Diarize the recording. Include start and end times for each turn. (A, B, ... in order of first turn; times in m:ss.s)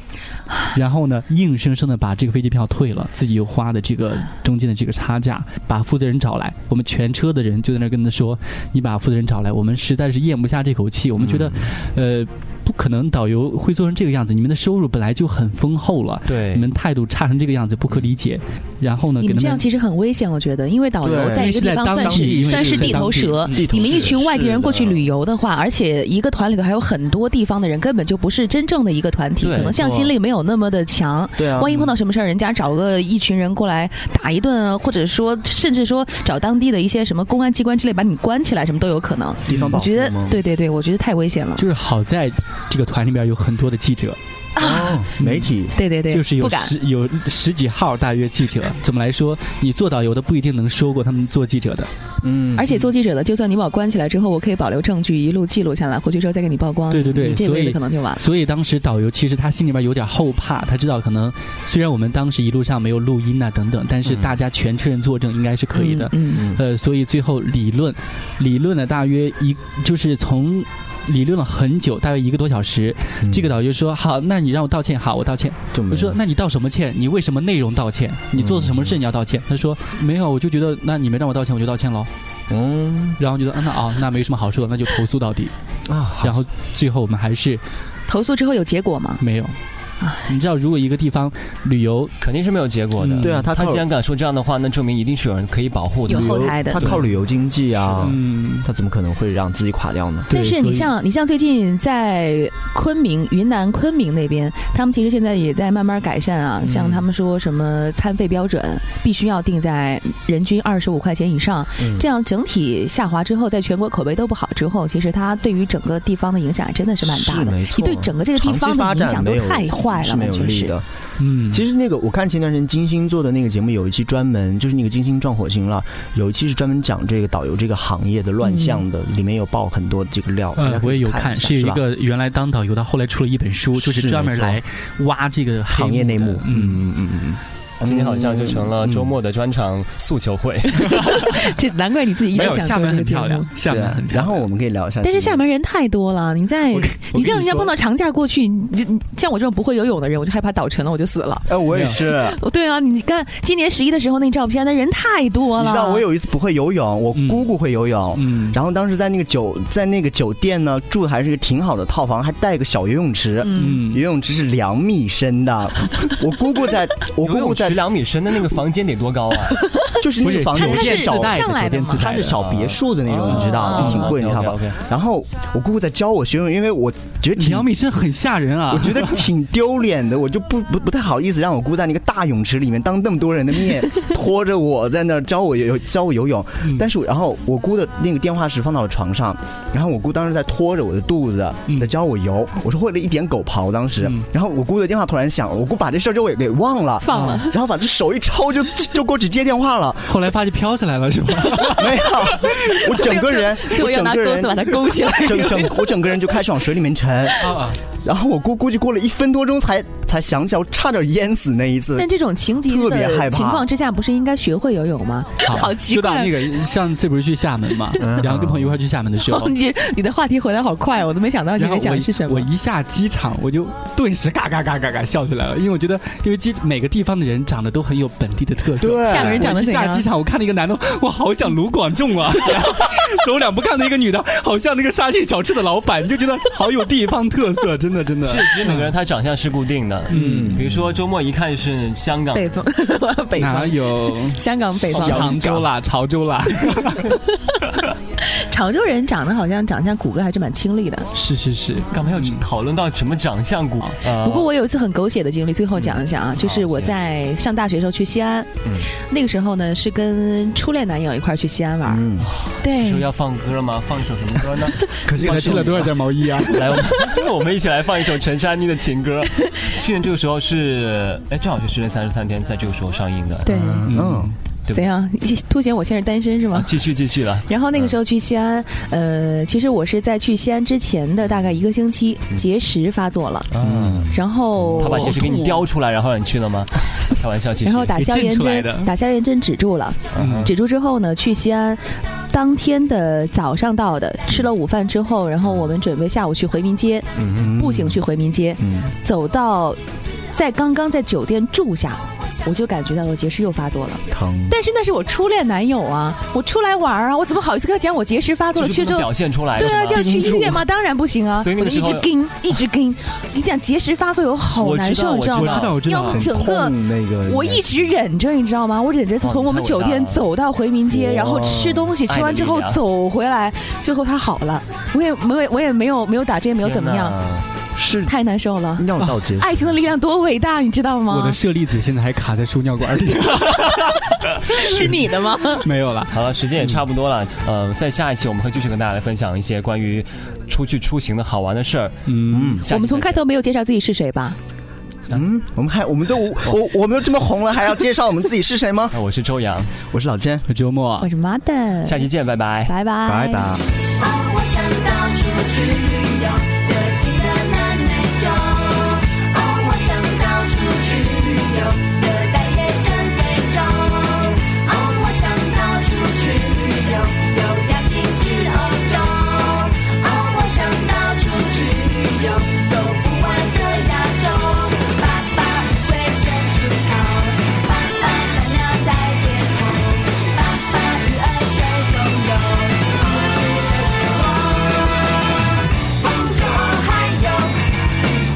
0:00.7-0:19.6 A
0:11.2-0:11.6 B
0:16.3-0:16.7 C
0:19.2-0:41.6 D
0:21.0-0:24.6 B
0:21.3-0:23.6 A
0:23.8-0:25.1 C
0:29.4-0:29.8 C
0:29.8-0:30.1 B
0:31.4-0:31.7 B
0:39.5-0:40.4 B
0:39.5-0:39.8 A
0:41.6-0:44.2 A
0:44.6-0:45.0 D
0:44.6-0:45.7 B
0:45.2-0:51.9 A
0:45.7-0:46.7 D
0:52.2-0:52.7 B
0:52.6-0:58.2 D
0:56.9-1:22.1 A
1:05.7-1:06.4 D
1:06.3-1:06.6 B
1:13.2-1:13.5 B
1:15.7-1:16.2 B
1:18.4-1:18.9 B
1:22.5-1:23.2 B
1:23.2-1:25.5 A
1:25.9-1:26.4 B
1:26.2-1:27.6 A
1:28.1-1:29.2 D
1:29.2-1:29.6 A
1:30.0-1:30.3 D
1:30.3-1:32.1 A
1:32.2-1:36.5 C
1:33.0-1:33.5 A
1:33.2-1:33.8 B
1:36.1-1:36.9 D
1:36.1-1:40.3 B
1:36.8-1:37.1 A
1:37.9-1:38.7 A
1:40.3-2:00.8 D
1:40.3-1:40.9 A
1:46.7-1:47.0 B
1:51.8-1:52.1 B
1:57.0-2:00.9 B
2:01.2-2:01.6 A
2:01.5-2:11.8 B
2:08.4-2:08.8 D
2:10.6-2:16.8 A
2:13.8-2:14.6 B
2:15.7-2:19.1 B
2:17.8-2:21.0 C
2:20.9-2:21.3 A
2:20.9-2:23.5 D
2:22.3-2:24.4 A
2:23.7-2:25.4 B
2:25.0-2:36.0 D
2:26.7-2:27.7 A
2:31.5-2:32.4 B
2:31.7-2:32.0 A
2:35.6-2:47.8 B
2:37.2-2:37.5 A
2:38.2-2:38.6 A
2:43.4-2:43.8 D
2:43.6-2:44.0 A
2:47.2-2:49.6 C
2:50.0-2:57.7 B
2:50.2-2:52.4 A
2:50.5-2:52.1 D
2:52.3-2:54.8 C
2:53.3-2:54.1 A
2:53.6-2:54.1 D
2:57.4-2:59.3 A
2:58.7-3:20.2 B
3:17.0-3:17.6 D
3:17.1-3:17.4 A
3:20.1-3:22.7 A
3:21.8-3:32.1 B
3:22.8-3:25.9 D
3:27.4-3:27.8 A
3:32.0-3:36.4 D
3:32.6-3:33.7 B
3:35.4-3:39.5 A
3:38.0-3:38.8 B
3:39.2-3:42.5 D
3:41.6-3:58.9 A
3:48.8-3:49.5 B
3:49.0-3:50.1 D
3:58.2-4:02.5 C
4:00.1-4:00.6 A
4:00.1-4:01.0 B
4:02.3-4:05.6 D
4:03.4-4:07.2 A
4:04.9-4:05.7 B
4:08.4-4:11.1 D
4:11.1-4:12.4 A
4:11.9-4:14.5 C
4:14.2-4:22.0 D
4:16.4-4:16.9 C
4:21.8-4:22.3 B
4:22.5-4:26.0 C
4:22.6-4:23.1 D
4:25.0-4:25.9 B
4:25.2-4:27.3 A
4:26.5-4:33.5 C
4:33.4-4:33.9 D
4:33.5-4:34.3 B
4:33.9-4:34.4 A
4:34.7-4:36.7 D
4:36.5-4:37.9 C
4:37.5-4:43.5 D
4:43.5-4:44.1 C
4:43.6-4:44.2 B
4:44.1-4:45.2 D
4:44.8-4:45.7 A
4:44.8-4:48.0 C
4:47.6-5:27.2 D
4:48.0-4:48.9 A
4:50.1-4:50.5 C
4:50.2-4:50.5 A
4:55.4-4:55.7 C
4:57.2-4:58.0 B
4:58.6-4:58.9 B
5:04.1-5:04.6 B
5:08.6-5:10.4 C
5:09.9-5:10.6 B
5:11.4-5:12.6 C
5:14.6-5:15.9 C
5:15.4-5:16.3 A
5:16.1-5:17.7 B
5:19.2-5:20.2 C
5:20.9-5:22.0 B
5:22.1-5:22.8 C
5:26.6-5:27.5 C
5:27.8-5:28.2 B
5:28.0-5:31.4 D
5:28.8-5:29.6 B
5:31.1-5:35.0 A
5:34.4-5:35.7 D
5:35.6-5:36.2 A
5:36.1-5:42.0 C
5:42.1-5:42.6 A
5:42.3-5:42.6 B
5:42.6-5:43.2 C
5:42.7-5:44.4 D
5:45.1-5:49.0 B
5:48.9-5:49.7 C
5:49.9-5:50.5 B
5:50.5-5:51.1 A
5:51.0-5:52.1 D
5:51.8-5:52.7 C
5:52.7-5:53.5 D
5:53.0-5:53.6 B
5:54.0-6:27.8 E